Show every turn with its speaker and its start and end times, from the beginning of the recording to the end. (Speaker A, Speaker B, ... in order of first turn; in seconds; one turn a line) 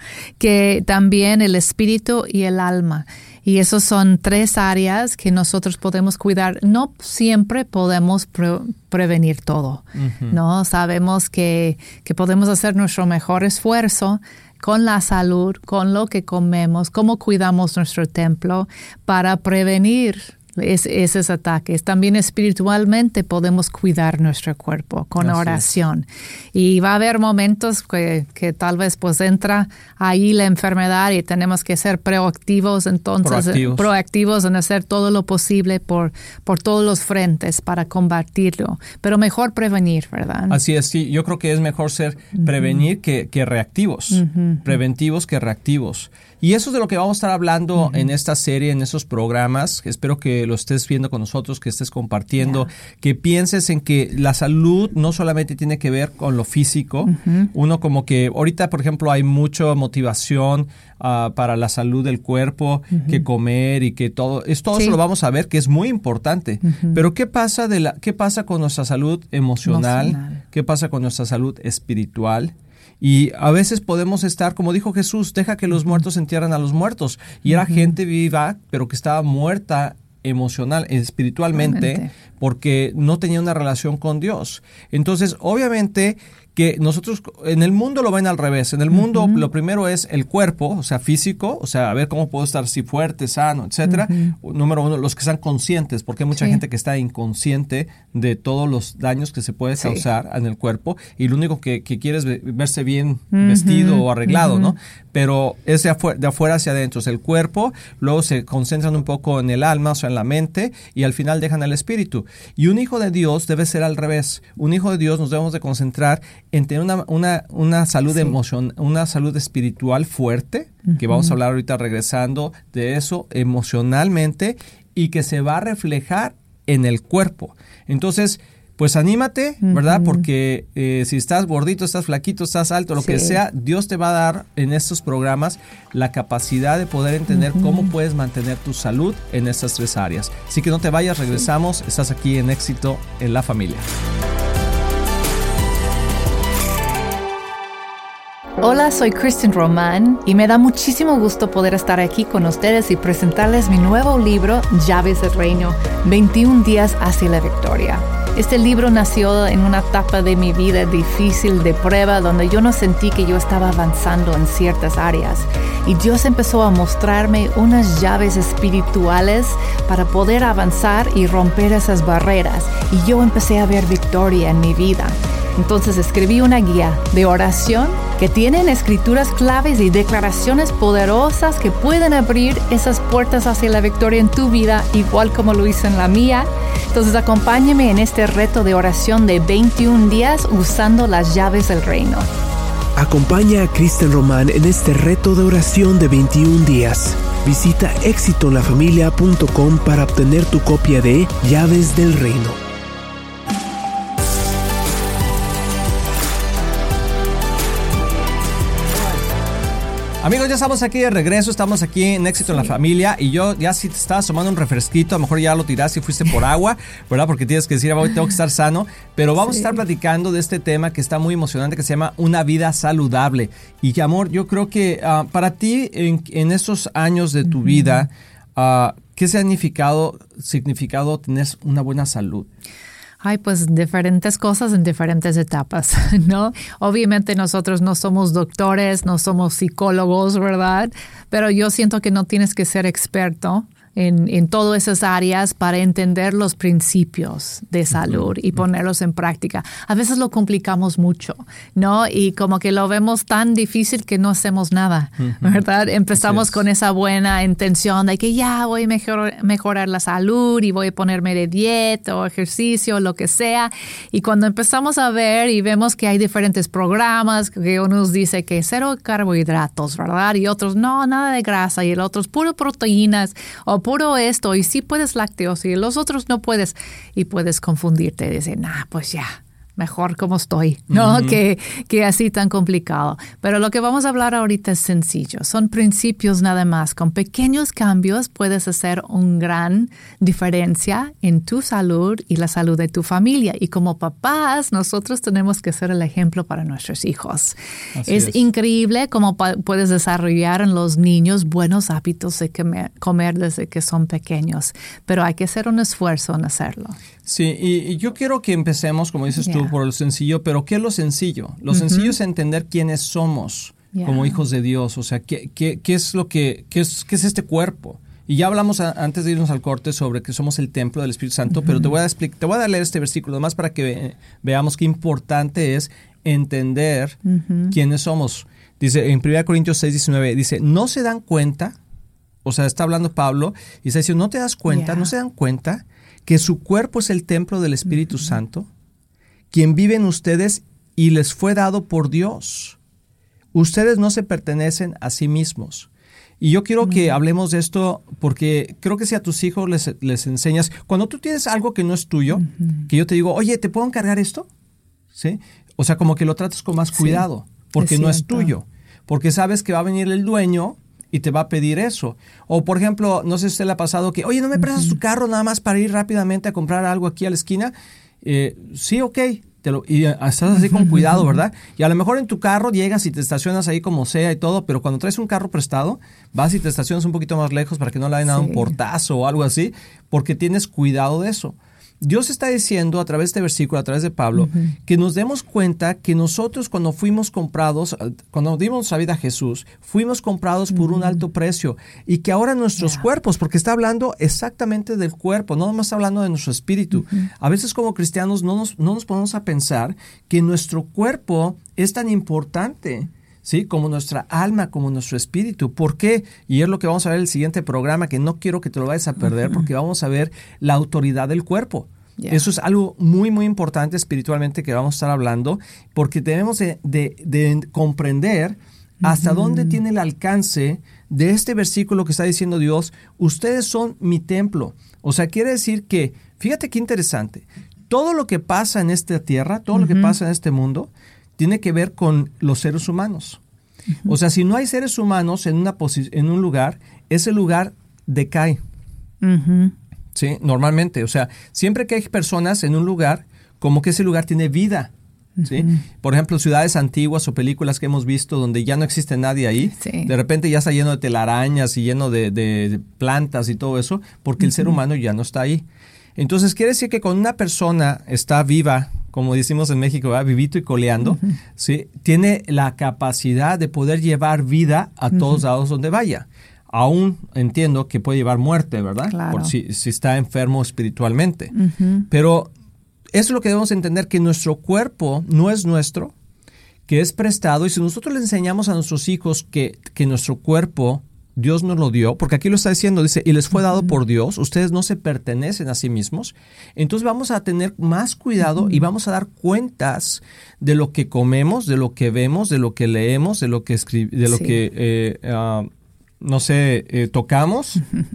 Speaker A: 0.4-40.6
Speaker B: 9.9-10.4
Speaker B: 25.2-25.7
Speaker B: 33.2-33.9
Speaker B: 40.5-143.9
Speaker A: 44.1-44.6
Speaker A: 57.1-57.5
Speaker A: 69.6-70.4
Speaker A: 81.6-82.1
Speaker A: 89.0-89.4
Speaker A: 93.9-94.3
Speaker A: 99.8-100.0
Speaker A: 103.3-104.7
Speaker A: 129.7-130.2
Speaker A: 133.0-133.4
Speaker A: 137.5-137.8
Speaker A: 148.6-192.3
Speaker C: 192.9-202.6
Speaker B: 210.2-232.5
Speaker A: 233.2-307.0
Speaker B: 255.2-255.6
Speaker B: 256.1-256.6
Speaker B: 280.9-281.4
Speaker B: 297.9-298.4
Speaker B: 307.2-331.7
Speaker A: 309.4-309.7
Speaker A: 311.7-312.1
Speaker A: 313.9-314.4
Speaker A: 327.2-327.7
Speaker B: 332.4-338.7
Speaker A: 334.7-335.1
Speaker B: 339.5-342.8
Speaker B: 343.5-345.9
Speaker B: 346.4-354.5
Speaker B: 355.1-433.4
Speaker A: 356.9-357.2
Speaker A: 357.8-358.5
Speaker A: 378.3-378.7
Speaker A: 384.4-384.7
Speaker A: 412.2-412.5
Speaker A: 419.0-419.7
Speaker A: 429.7-430.1
Speaker B: 434.0-438.6
Speaker A: 439.2-439.7
Speaker B: 440.1-444.9
Speaker A: 445.4-445.8
Speaker B: 445.4-455.6
Speaker A: 449.8-450.1
Speaker B: 456.1-471.5
Speaker A: 469.1-469.5
Speaker A: 471.5-472.1
Speaker B: 472.1-472.5
Speaker B: 473.1-476.1
Speaker B: 476.9-495.7
Speaker A: 494.3-494.6
Speaker B: 496.2-497.8